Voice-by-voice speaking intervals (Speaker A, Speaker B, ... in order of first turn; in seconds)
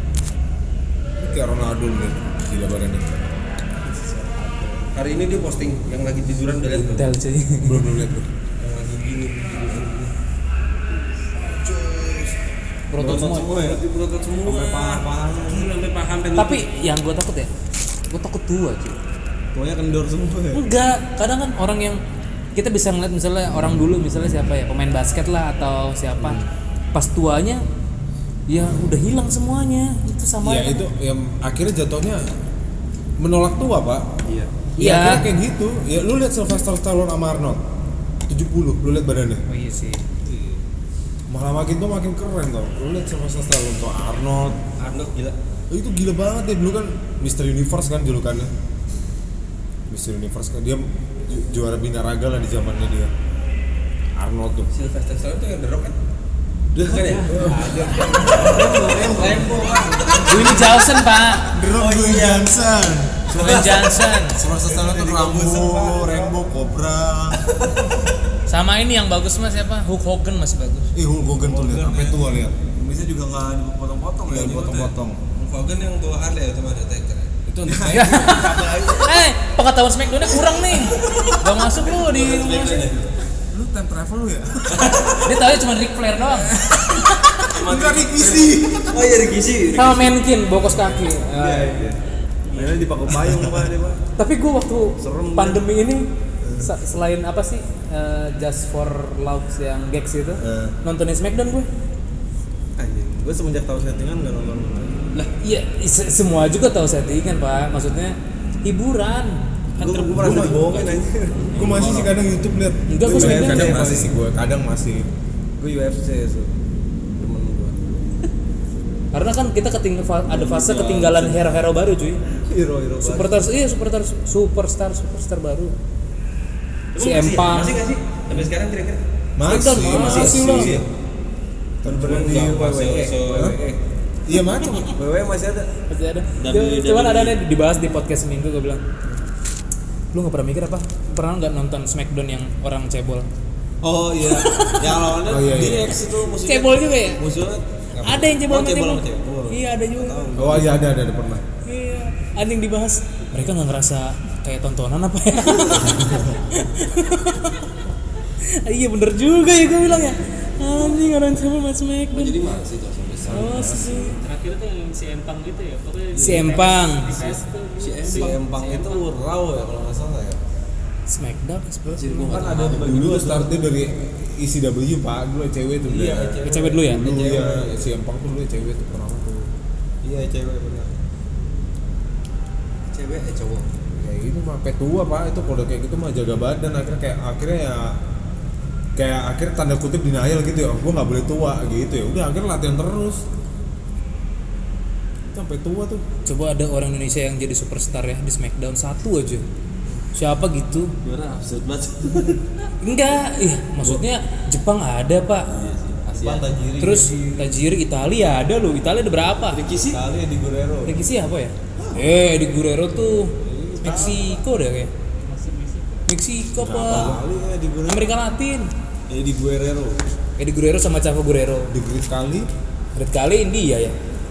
Speaker A: 1.2-3.6, 7.6-8.3, 26.2-26.5, 30.4-32.3, 33.2-34.1, 34.8-37.6, 38.2-39.4, 41.3-44.6, 45.7-48.5, 49.9-53.1, 54.1-54.7, 57.2-63.7, 64.3-67.4, 70.9-72.5, 74.2-75.2, 77.5-78.6, 83.5-85.1, 86.5-89.0, 93.2-93.6, 110.1-110.7, 111.5-115.1, 129.4-130.8, 131.8-132.7, 133.3-133.6, 134.2-135.0, 145.2-146.0, 150.3-151.4, 155.8-156.3, 163.2-164.2, 172.6-179.5, 184.0-187.9, 188.9-193.2, 195.2-196.1, 216.6-217.2, 221.7-222.5
Speaker B: 3.8-4.9, 11.5-12.3, 13.0-13.9, 14.4-15.7, 19.5-20.6, 40.2-40.6, 56.9-60.2, 63.3-66.4, 71.4-74.9, 77.7-79.2, 88.9-90.0, 91.3-92.0, 92.5-94.0, 95.0-95.6, 96.4-96.7, 102.8-105.0, 109.8-111.9, 113.0-114.2, 115.6-116.5, 117.2-117.8, 120.2-121.6, 122.5-123.5, 130.1-130.7, 131.8-133.8, 134.9-135.7, 143.8-146.7, 147.2-150.9, 166.1-166.6, 168.0-170.4, 172.2-173.5, 175.9-177.7, 180.0-180.9, 206.1-207.5, 209.9-210.9, 213.4-214.3, 216.8-218.1, 219.1-220.0
Speaker C: 4.9-7.1, 8.6-10.1, 13.2-16.7, 44.8-45.4, 54.7-56.0, 56.7-60.6, 61.7-62.6, 74.3-77.8, 81.8-83.1, 84.7-85.2, 87.4-89.9, 110.2-112.1, 126.9-129.0, 129.7-130.8, 132.0-133.6, 136.4-137.4, 145.4-147.3, 148.2-149.0, 162.1-163.8, 167.8-168.8, 171.9-173.1, 182.9-183.7, 201.0-202.4, 205.5-206.5, 209.5-210.0
Speaker D: 6.7-7.9, 12.9-13.5, 16.3-17.5, 18.1-19.0, 20.5-22.0, 22.5-27.6, 28.5-30.9, 34.8-35.2, 39.5-40.0, 57.5-58.7, 60.2-61.5, 63.3-64.4, 68.5-70.9, 77.9-82.9, 85.2-86.5, 89.7-91.8, 94.2-96.1, 96.6-101.7, 105.4-110.5, 112.9-113.8, 119.1-122.2, 123.0-125.7, 127.0-127.8, 129.5-130.7, 135.9-138.8, 140.1-143.3, 144.3-144.8, 146.4-147.2, 148.0-150.3, 151.7-157.6, 158.4-162.6, 163.3-164.2, 166.2-167.1, 171.1-172.3, 176.4-177.1, 196.2-199.4, 200.1-200.9, 202.8-205.5, 206.8-209.6, 210.9-214.9, 216.1-217.2, 217.9-218.7, 220.4-221.7, 222.9-224.0
Speaker E: 164.1-169.0, 215.2-216.0